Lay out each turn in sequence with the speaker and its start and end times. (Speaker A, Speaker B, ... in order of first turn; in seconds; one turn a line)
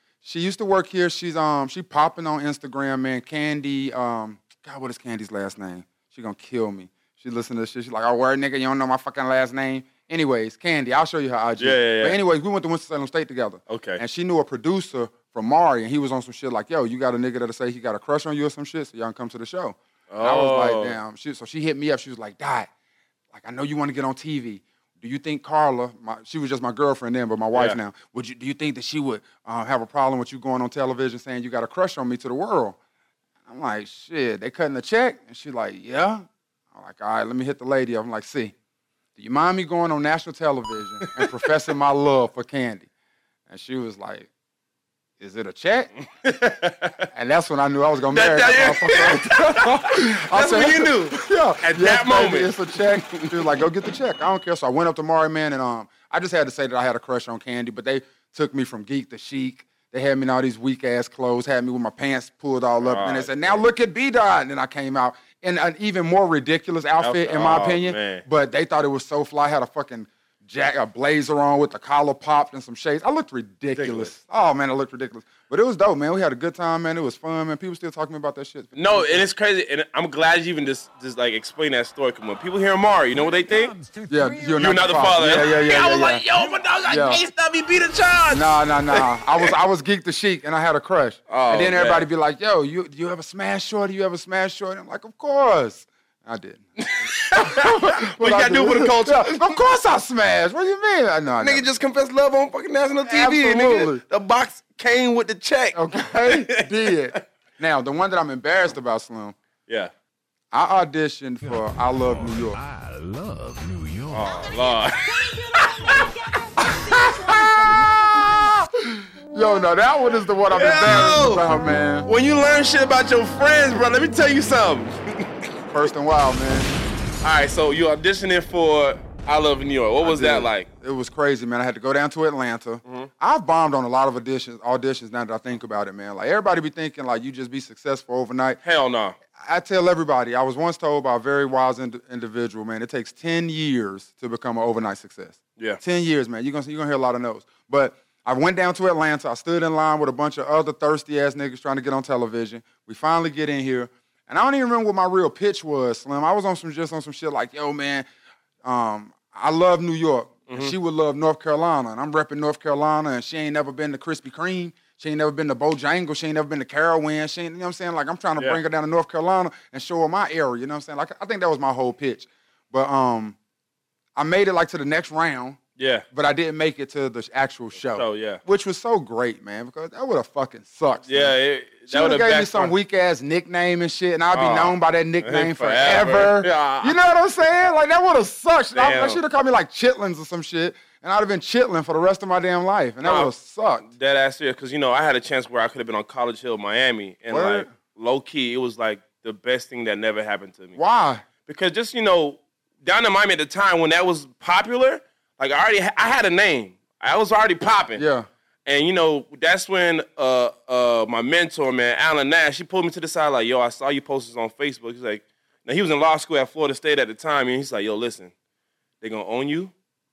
Speaker A: 0.2-22.7
Speaker B: 11.6-12.2
Speaker B: 13.7-14.0
Speaker B: 20.1-21.0
Speaker A: 23.3-32.8
Speaker B: 27.5-27.8
Speaker A: 33.5-38.5
Speaker A: 39.1-42.9
Speaker B: 41.0-41.4
Speaker A: 43.5-44.3
Speaker A: 45.2-45.9
Speaker B: 46.2-47.1
Speaker A: 47.1-79.2
Speaker B: 48.1-53.7
Speaker B: 62.8-63.6
Speaker B: 67.0-68.2
Speaker B: 73.7-74.1
Speaker B: 78.7-83.7
Speaker C: 83.1-85.5
Speaker A: 84.1-86.2
Speaker B: 84.5-89.5
Speaker A: 86.9-87.2
Speaker A: 88.3-101.6
Speaker B: 91.3-92.1
Speaker B: 96.8-99.6
Speaker B: 101.4-107.2
Speaker A: 103.0-104.0
Speaker A: 105.7-109.3
Speaker A: 110.5-112.6
Speaker C: 111.4-114.7
Speaker B: 114.1-117.8
Speaker A: 116.9-117.3
Speaker A: 118.3-122.1
Speaker B: 120.5-121.5
Speaker B: 122.0-125.4
Speaker A: 125.7-126.7
Speaker B: 127.2-130.7
Speaker A: 130.0-138.6
Speaker B: 132.8-133.1
Speaker B: 138.6-139.2
Speaker A: 139.4-158.1
Speaker A: 158.6-173.4
Speaker B: 160.5-160.7
Speaker A: 174.2-175.6
Speaker B: 175.8-176.0
Speaker A: 176.1-181.3
Speaker B: 177.9-178.4
Speaker B: 181.1-182.7
Speaker A: 181.9-193.9
Speaker B: 184.3-187.0
Speaker B: 188.7-189.2
Speaker B: 193.0-193.3
Speaker B: 193.8-200.8
Speaker A: 197.3-197.7
Speaker A: 200.8-201.2
Speaker B: 201.4-208.0
Speaker A: 208.0-208.3
Speaker B: 208.6-218.3
Speaker B: 219.0-219.7